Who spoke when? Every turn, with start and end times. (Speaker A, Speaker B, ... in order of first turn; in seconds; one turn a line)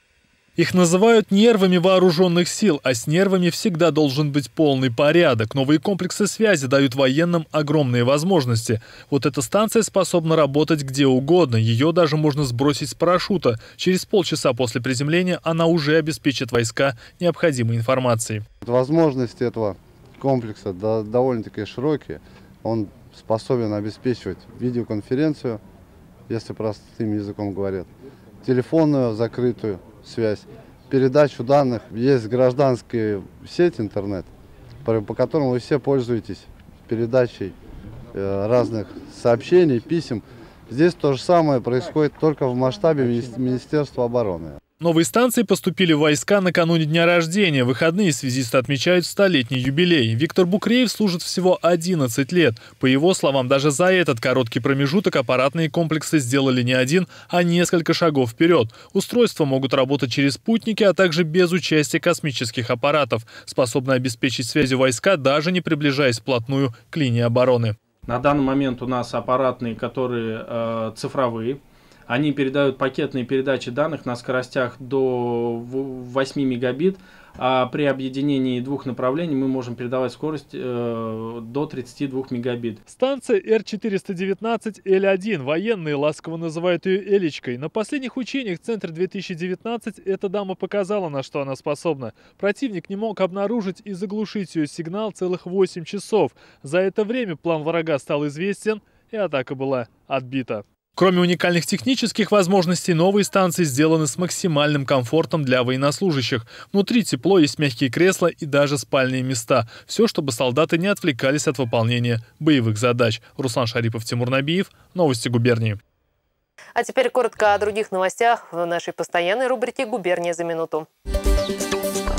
Speaker A: 0.6-18.4
Speaker B: 18.6-25.6
Speaker B: 26.3-27.9
Speaker B: 28.4-34.3
Speaker B: 34.8-37.5
Speaker B: 38.1-44.6
Speaker A: 44.8-67.8
Speaker C: 68.1-82.8
Speaker A: 82.8-115.8
Speaker D: 116.8-120.9